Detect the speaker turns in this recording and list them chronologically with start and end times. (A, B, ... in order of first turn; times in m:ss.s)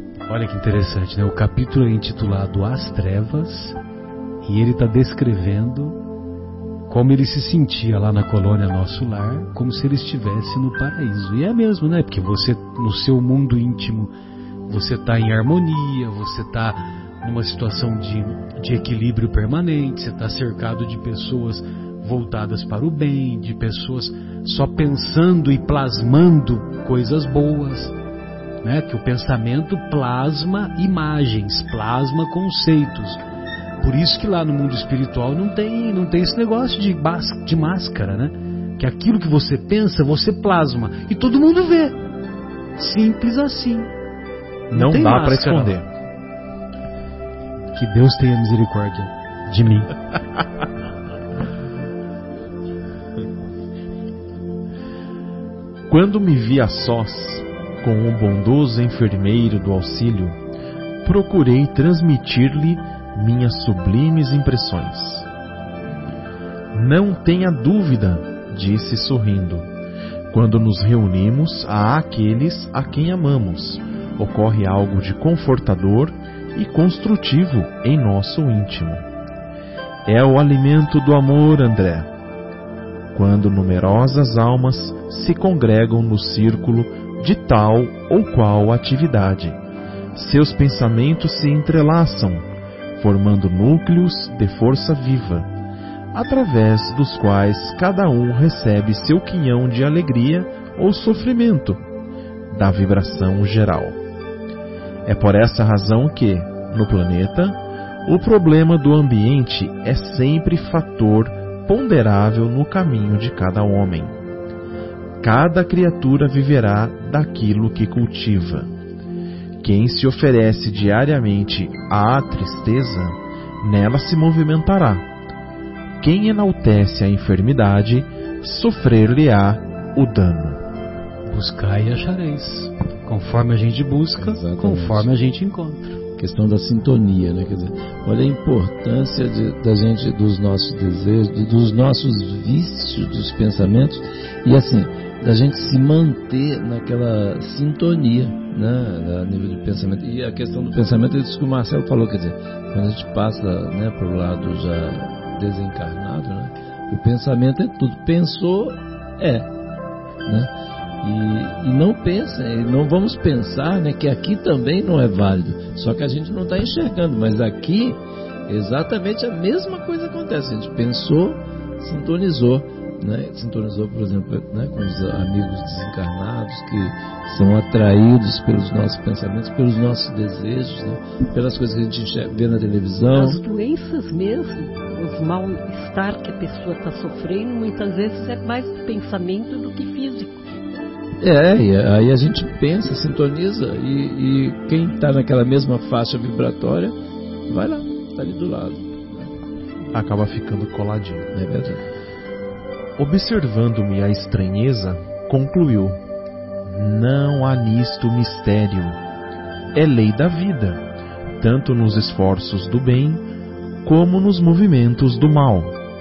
0:00.3-0:03.8 A
0:04.4-0:06.0 A
0:06.9-0:14.1 A
0:14.7-0:28.0 A
0:28.6-0:33.2 A
0:33.8-0:42.0 A
0:42.8-0:43.9 A
0:44.7-0:45.8 A
0:44.7-0:45.9 B
0:47.8-0:50.0 A
0:55.9-1:00.4 B
1:01.0-1:05.3 B
1:06.7-1:09.7 B
1:10.3-1:19.0 B
1:20.1-1:22.1 B
1:23.1-1:29.6 B
1:30.2-1:32.4 B
1:33.0-1:35.5 B
1:36.1-1:41.8 B
1:42.5-1:44.0 B
1:45.0-1:54.2 B
1:55.2-1:58.7 B
1:59.6-2:05.1 B
2:06.0-2:10.6 B
2:11.3-2:16.0 A
2:14.2-2:15.1 C
2:16.2-2:39.5 C
2:40.2-2:40.5 C
2:41.0-3:03.4 C
3:03.1-3:10.4 D
3:11.2-3:17.0 C
3:17.5-3:19.3 C
3:19.9-3:21.3 B
3:21.3-3:21.8 C
3:23.0-3:26.0 B
3:26.7-3:29.0 B
3:29.7-3:30.8 B
3:31.4-3:33.2 B
3:33.8-3:35.8 B